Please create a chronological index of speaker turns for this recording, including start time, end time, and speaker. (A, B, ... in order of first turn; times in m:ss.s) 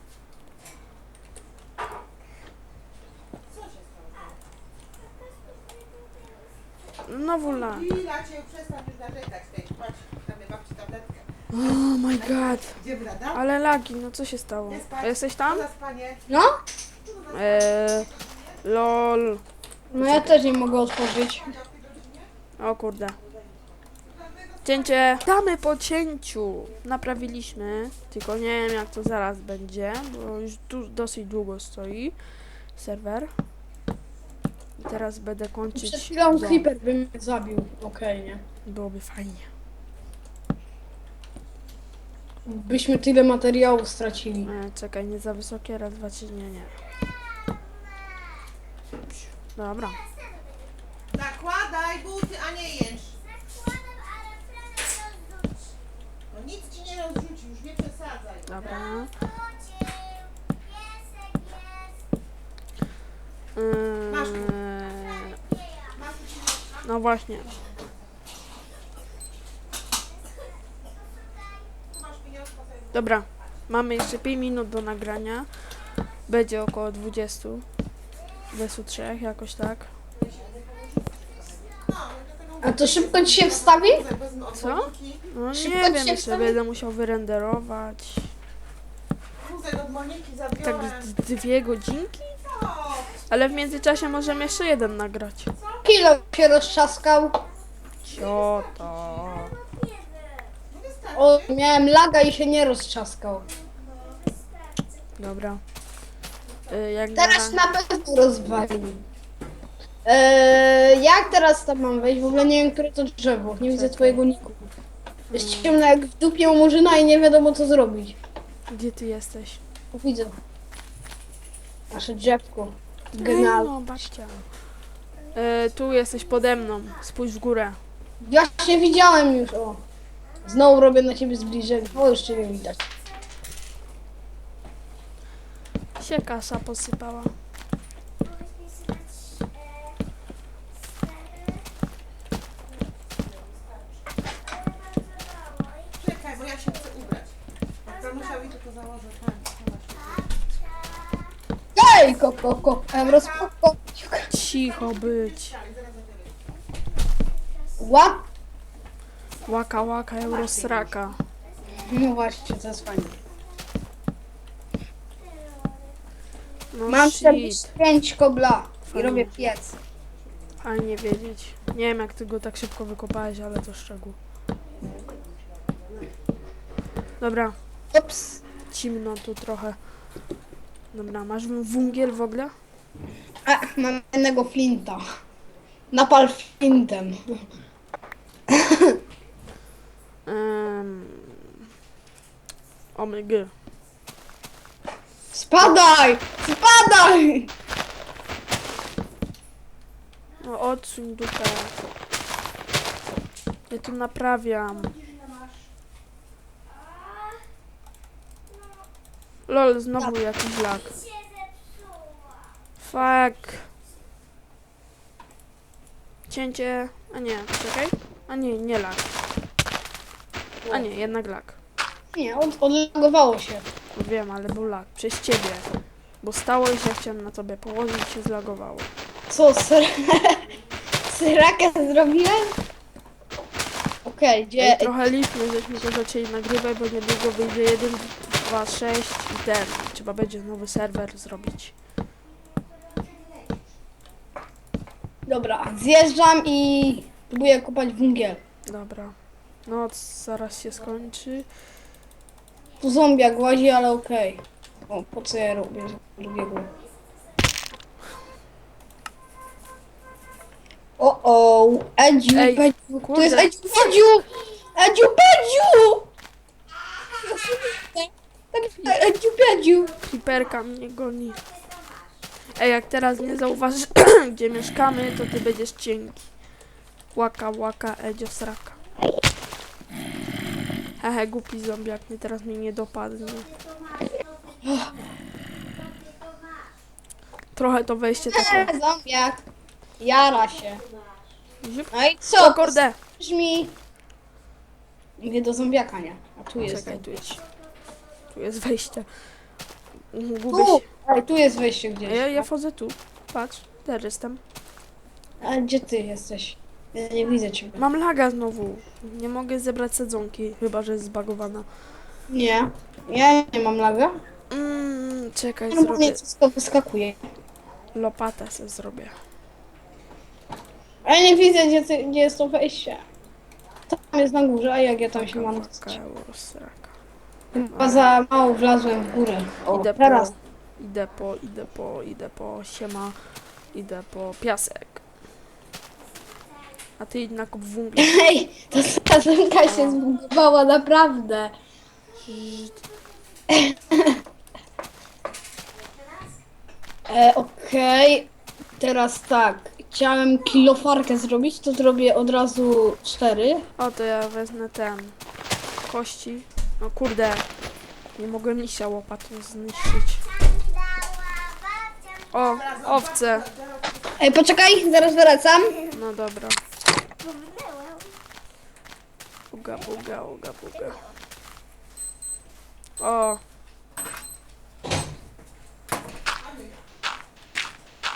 0:03.5-0:04.4 A
0:07.1-0:07.9 B
0:07.4-0:11.3 A
0:11.5-0:12.8 B
0:12.2-0:13.4 A
0:13.3-0:15.7 B
0:14.7-0:16.2 A
0:16.3-0:16.6 C
0:17.0-0:18.6 A
0:17.3-0:18.1 B
0:18.6-0:19.4 B
0:19.9-0:21.5 C
0:20.0-0:20.4 B
0:21.1-0:22.3 A
0:22.6-0:23.2 B
0:24.0-0:25.2 A
0:24.6-0:32.2 B
0:32.8-0:33.3 B
0:34.8-0:36.7 B
0:35.7-0:38.4 C
0:38.7-0:39.5 B
0:42.5-0:44.5 C
0:44.4-0:46.7 B
0:49.4-0:50.0 B
0:51.1-0:53.2 A
0:56.3-0:58.9 A
0:58.5-0:59.1 B
1:03.6-1:05.4 B
1:04.1-1:04.5 A
1:05.9-1:06.9 A
1:06.8-1:07.5 B
1:07.4-1:07.8 A
1:11.9-1:13.0 A
1:12.9-1:15.5 B
1:16.3-1:17.7 B
1:18.5-1:19.9 B
1:20.2-1:25.2 A
1:22.6-1:24.0 C
1:24.5-1:28.3 B
1:25.5-1:26.6 C
1:29.4-1:31.2 A
1:30.6-1:32.4 B
1:32.4-1:33.3 A
1:33.3-1:35.5 B
1:35.6-1:35.8 A
1:35.8-1:37.4 C
1:38.0-1:39.6 B
1:38.1-1:39.3 A
1:40.7-1:41.5 A
1:41.2-1:43.5 C
1:45.2-1:45.6 B
1:46.7-1:47.6 B
1:47.2-1:49.0 C
1:50.0-1:54.7 C
1:53.7-1:54.2 B
1:55.3-1:58.2 C
1:55.3-1:55.8 B
1:58.7-1:59.6 B
1:59.9-2:00.4 C
2:01.9-2:03.7 C
2:03.1-2:04.5 B
2:05.3-2:07.8 B
2:08.2-2:09.8 C
2:10.4-2:12.8 C
2:16.0-2:17.3 B
2:25.9-2:27.3 A
2:27.8-2:30.4 A
2:31.8-2:34.3 C
2:32.9-2:33.5 A
2:34.3-2:35.6 B
2:34.4-2:36.6 A
2:37.8-2:38.3 C
2:39.5-2:41.2 B
2:41.7-2:43.2 C
2:46.7-2:47.8 B
2:46.9-2:49.7 C
2:48.9-2:49.6 B
2:50.6-2:54.2 B
2:57.2-2:57.6 B
2:57.9-2:58.4 C
2:58.7-2:59.8 B
3:00.9-3:02.5 B
3:03.5-3:05.0 C
3:05.9-3:07.4 C
3:08.5-3:09.0 C
3:10.3-3:11.6 B
3:13.0-3:13.5 B
3:15.3-3:17.5 C
3:20.4-3:21.7 B
3:23.7-3:25.0 B
3:29.5-3:31.1 B
3:32.8-3:33.7 B
3:36.3-3:39.1 B
3:40.7-3:41.6 B
3:42.2-3:43.7 C
3:44.0-3:45.7 B
3:46.2-3:48.9 B
3:49.3-3:50.4 C
3:51.1-3:52.6 C
3:54.0-3:54.9 C
3:54.6-4:01.7 B
4:05.3-4:08.4 C
4:08.7-4:09.2 B
4:09.7-4:11.5 B
4:12.8-4:16.7 C
4:21.0-4:26.1 C
4:22.3-4:23.5 B
4:27.1-4:29.9 C
4:30.0-4:31.4 B
4:32.6-4:36.3 B
4:37.1-4:38.8 B
4:41.0-4:43.5 B
4:44.6-4:44.9 C
4:47.6-4:48.7 B
4:48.3-4:49.4 C
4:50.0-4:50.8 C
4:51.6-4:53.0 B
4:51.9-4:53.8 C
4:55.2-4:57.1 C
4:56.7-4:57.4 B
4:58.3-4:59.1 B
5:00.1-5:00.9 B
5:00.5-5:02.4 C
5:02.0-5:04.4 B
5:05.4-5:07.8 C
5:07.8-5:11.7 B
5:12.3-5:14.2 C
5:14.5-5:16.2 B
5:15.7-5:17.2 C
5:18.0-5:19.2 B
5:21.0-5:23.0 C
5:23.9-5:26.0 C
5:25.1-5:26.9 B
5:27.5-5:30.3 C
5:27.7-5:28.1 B
5:29.7-5:33.2 B
5:33.7-5:35.0 B
5:37.0-5:38.2 B
5:38.0-5:41.5 C
5:39.6-5:40.0 B
5:42.3-5:42.8 B
5:43.5-5:44.2 C
5:47.1-5:53.7 C
5:53.8-5:55.2 B
5:55.9-5:57.5 B
5:58.2-6:00.3 B
6:02.3-6:03.5 B
6:02.4-6:04.2 A
6:04.2-6:05.9 C
6:05.9-6:06.6 B
6:09.5-6:11.0 B
6:13.0-6:13.4 B
6:16.4-6:16.8 A